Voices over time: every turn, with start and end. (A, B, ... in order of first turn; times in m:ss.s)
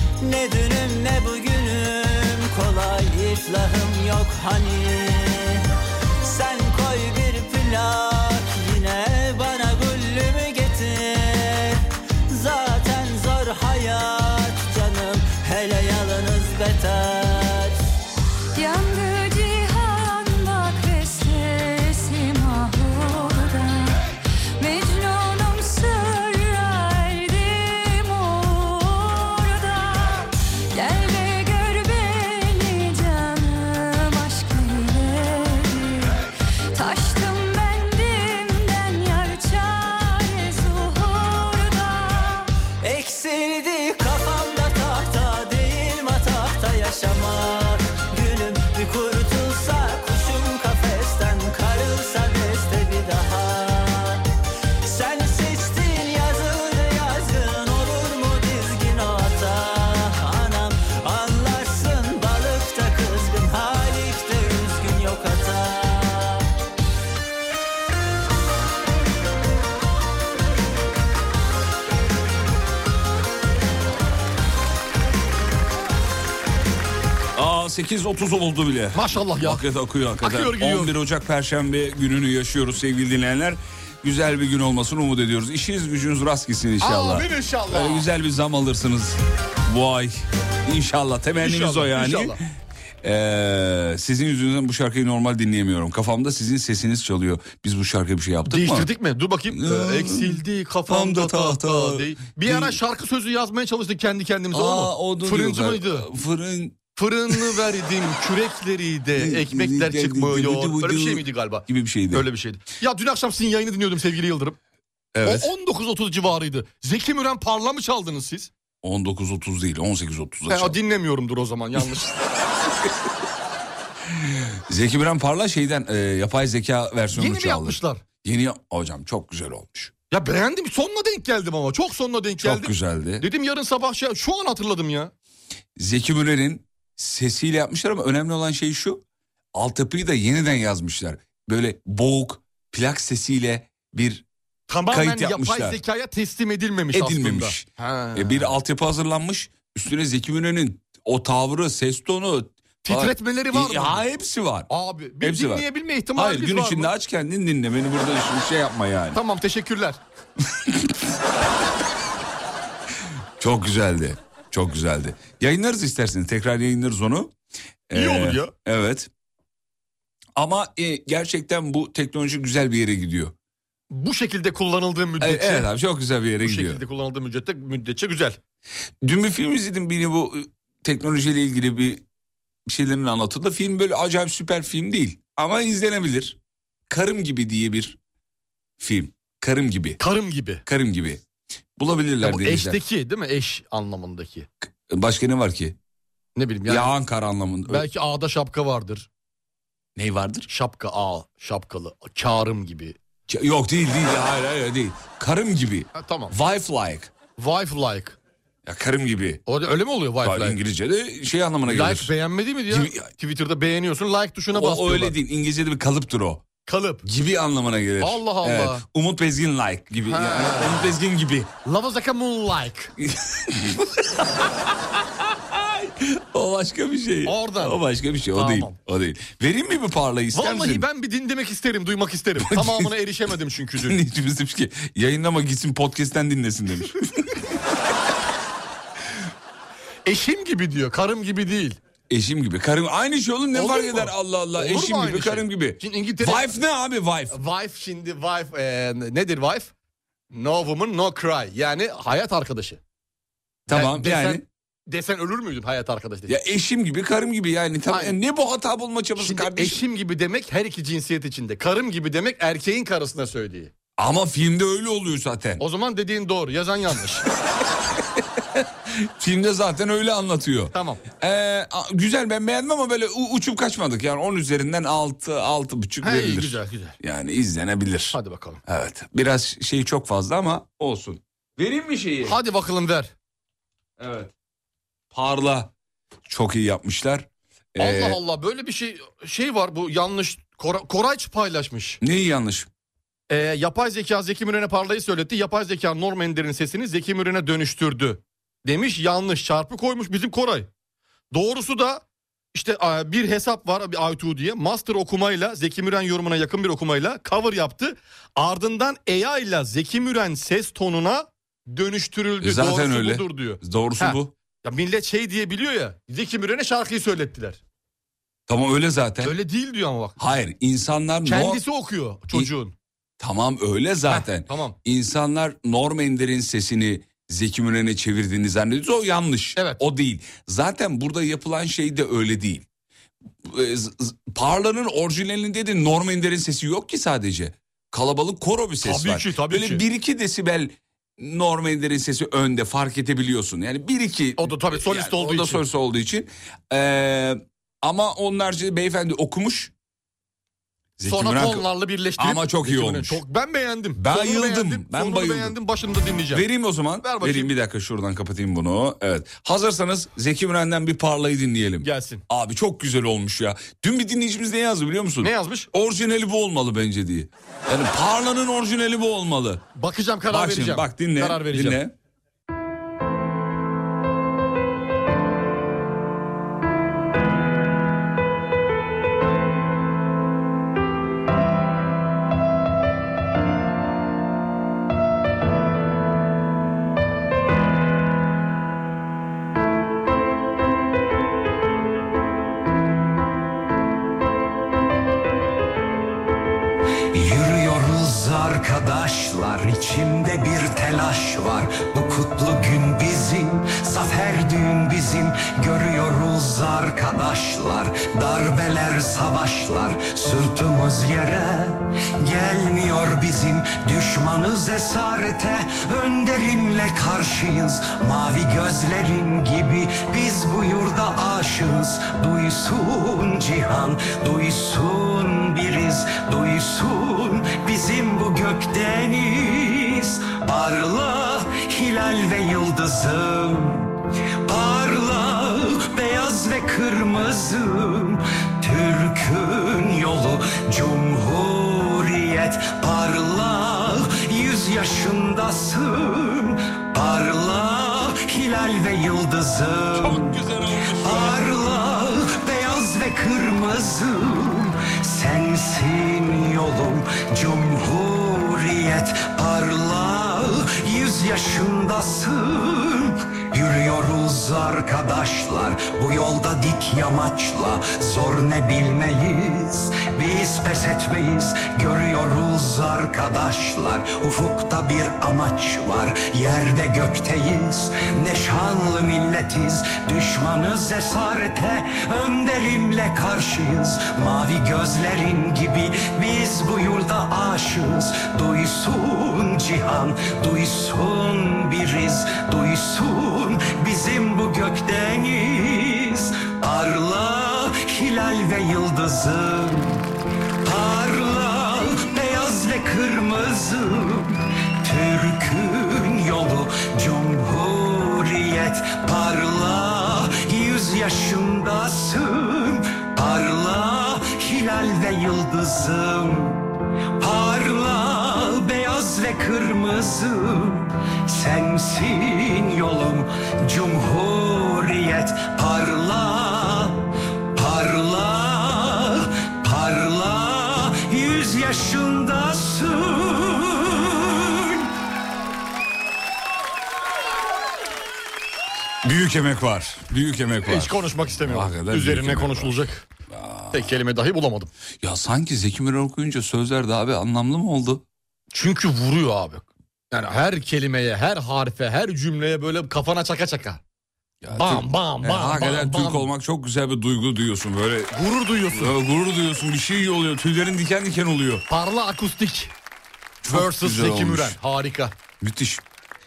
0:00.2-0:05.6 A
0:06.2-0:17.8 A
0:18.5-0:24.1 B
0:24.6-0:36.2 B
0:36.7-0:42.5 B
0:42.8-0:54.2 A
0:54.8-1:06.4 A
1:17.3-1:32.4 C
1:18.9-1:19.6 D
1:20.2-1:20.9 D
1:26.8-1:28.1 D
1:31.4-1:32.4 D
1:33.0-1:38.9 C
1:38.5-1:46.0 D
1:39.5-1:42.8 C
1:44.5-1:46.8 C
1:47.0-1:54.6 D
1:47.3-1:47.6 C
1:49.2-1:52.2 C
1:55.1-1:55.5 C
1:55.2-1:58.5 D
1:58.8-2:00.8 C
2:00.5-2:02.2 D
2:04.1-2:09.9 C
2:07.1-2:08.0 D
2:10.1-2:15.1 D
2:12.4-2:13.2 C
2:15.8-2:19.0 C
2:19.5-2:24.2 C
2:24.7-2:28.5 D
2:24.9-2:25.8 C
2:26.9-2:34.7 C
2:32.8-2:34.0 D
2:34.7-2:36.9 D
2:35.2-2:39.2 C
2:39.1-2:40.0 D
2:40.5-2:40.9 C
2:43.4-2:47.3 C
2:47.9-2:49.1 C
2:47.9-2:48.5 D
2:50.4-2:53.3 C
2:53.9-2:55.7 D
2:55.2-2:56.8 C
2:56.4-2:58.4 D
2:59.0-3:02.0 C
3:02.6-3:06.4 C
3:06.9-3:08.0 C
3:08.8-3:10.0 C
3:10.0-3:10.6 D
3:10.6-3:11.2 C
3:11.8-3:12.8 C
3:12.2-3:14.5 D
3:14.9-3:15.8 C
3:16.3-3:16.9 D
3:16.7-3:17.8 C
3:17.7-3:19.1 D
3:20.0-3:20.5 C
3:20.5-3:23.0 D
3:23.3-3:27.1 C
3:25.9-3:26.3 D
3:27.4-3:28.2 D
3:28.6-3:29.4 C
3:29.4-3:30.6 D
3:30.2-3:32.1 C
3:31.6-3:35.2 D
3:32.7-3:33.1 C
3:34.5-3:36.4 C
3:36.6-3:37.0 D
3:37.0-3:41.5 C
3:38.0-3:38.8 D
3:40.1-3:40.9 D
3:41.6-3:42.9 D
3:43.0-3:50.8 C
3:47.2-3:47.8 D
3:48.3-3:48.8 D
3:50.3-3:54.0 D
3:52.4-3:52.9 C
3:53.8-3:57.4 C
4:00.0-4:01.8 D
4:02.1-4:07.4 C
4:03.5-4:06.5 D
4:07.3-4:09.7 D
4:10.3-4:12.8 D
4:13.7-4:14.4 C
4:13.7-4:16.3 D
4:16.3-4:19.8 C
4:17.9-4:18.2 D
4:19.2-4:23.7 D
4:24.0-4:25.6 C
4:25.6-4:27.2 D
4:28.1-4:42.4 C
4:30.7-4:31.0 D
4:36.0-4:37.0 D
4:38.1-4:38.6 D
4:42.2-4:43.1 D
4:44.0-4:44.3 C
4:45.1-4:45.7 C
4:46.3-4:48.2 C
4:47.8-4:52.0 D
4:52.0-4:52.7 C
4:53.3-5:00.7 D
5:01.3-5:02.0 D
5:02.5-5:17.6 D
5:12.4-5:14.3 C
5:18.5-5:19.3 C
5:19.2-5:20.2 D
5:20.2-5:21.6 C
5:21.2-5:22.7 D
5:23.2-5:32.6 C
5:24.1-5:24.8 D
5:29.6-5:29.8 D
5:33.4-5:49.7 C
5:38.8-5:39.8 D
5:44.4-5:45.6 D
5:51.0-5:53.2 C
5:51.0-5:56.4 D
5:53.9-5:55.6 C
5:56.3-6:09.6 C
5:57.0-5:57.5 D
6:01.8-6:02.2 D
6:05.2-6:05.7 D
6:09.7-6:11.8 D
6:10.3-6:11.9 C
6:37.1-7:13.9 E
7:14.4-7:30.3 E
7:30.0-7:31.4 C
7:31.0-8:20.0 E
8:20.6-8:36.7 E
8:37.2-8:47.0 E
8:47.5-8:54.9 E
8:59.0-9:04.0 C
9:00.6-9:03.0 D
9:03.7-9:04.7 D
9:05.0-9:08.0 C
9:08.5-9:13.8 D
9:14.4-9:18.2 C
9:14.5-9:16.3 D
9:18.1-9:19.0 D
9:18.7-9:21.6 C
9:21.7-9:22.7 D
9:23.4-9:24.6 C
9:23.5-9:25.1 D
9:25.4-9:25.8 C